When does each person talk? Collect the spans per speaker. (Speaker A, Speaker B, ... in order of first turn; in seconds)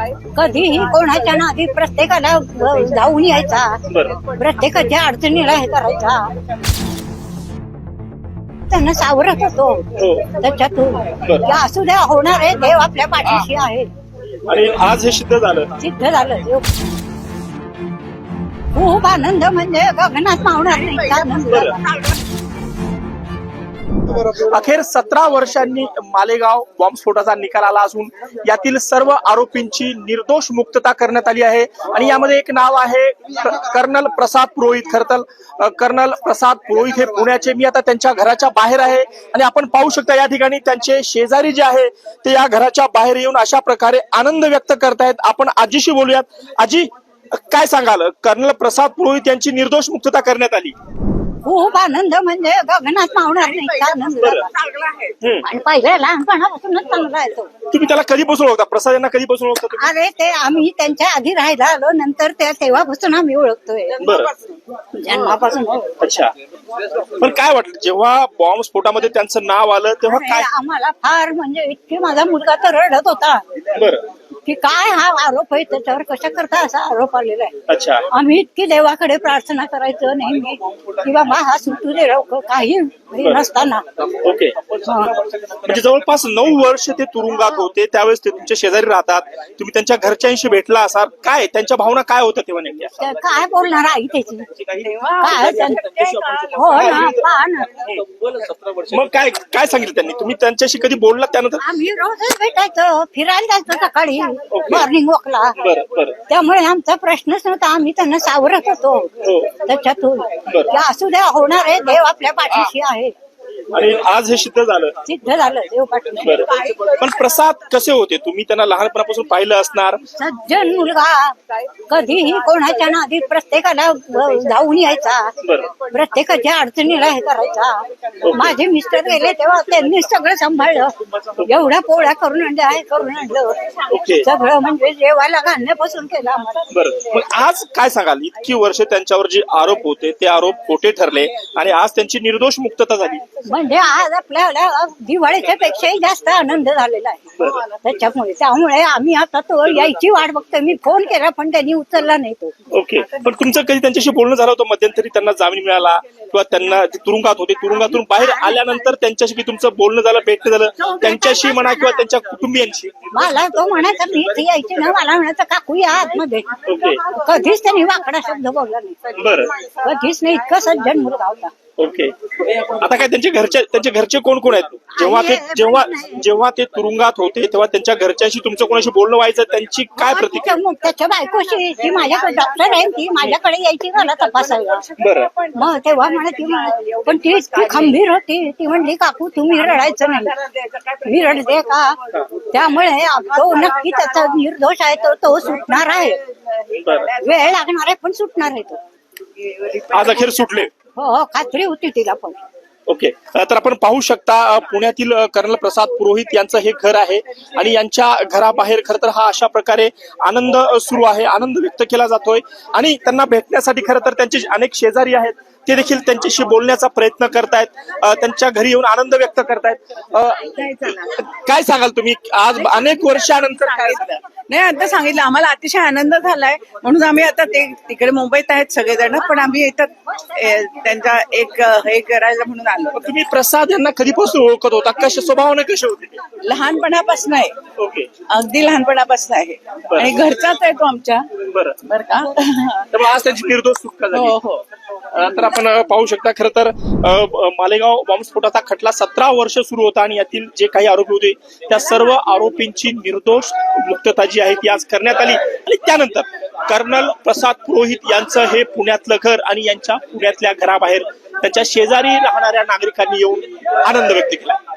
Speaker A: 0.3-6.3, 8.7-13.9, 15.8-16.7, 18.7-21.8, 51.4-54.5, 55.4-57.5, 59.8-64.2, 64.9-66.0, 70.1-73.4, 74.5-77.6, 78.1-83.9, 84.8-85.1, 93.0-94.5, 95.2-95.8, 96.5-97.7, 101.6-105.6, 106.3-113.1, 115.0-116.7, 120.2-136.8, 143.5-152.6, 158.2-158.6, 160.8-162.0, 163.1-171.5, 174.9-176.2, 180.0-184.9, 185.5-190.4, 191.0-196.2, 197.1-198.8, 201.0-202.4
Speaker B: 3.9-4.2, 9.9-10.3, 11.2-11.5, 14.5-15.7, 24.1-50.8, 55.2-55.5, 57.7-59.9, 64.0-64.3, 66.0-66.3, 67.2-70.5, 73.7-74.0, 77.7-78.1, 83.2-83.5, 84.2-84.8, 85.5-93.0, 96.7-97.2, 97.8-98.2, 98.9-101.6, 104.5-104.9, 105.6-106.2, 109.2-109.5, 110.5-110.8, 113.7-115.0, 116.2-120.0, 125.4-125.7, 128.2-128.6, 133.9-134.3, 136.7-143.2, 147.4-147.6, 152.7-163.2, 166.7-167.0, 169.2-169.5, 171.8-180.6, 185.0-185.3, 196.8-197.1, 199.9-200.7, 202.9-224.0, 232.9-236.2, 237.8-238.1, 239.9-240.2, 241.4-241.8, 242.9-244.4, 245.1-264.6
Speaker C: 21.1-22.1, 53.7-55.2, 94.8-97.0, 185.1-185.5, 186.8-187.1, 196.6-197.0, 199.4-200.3, 220.6-221.2, 222.7-233.1, 236.4-237.6, 238.3-241.3, 241.8-242.9, 244.1-244.7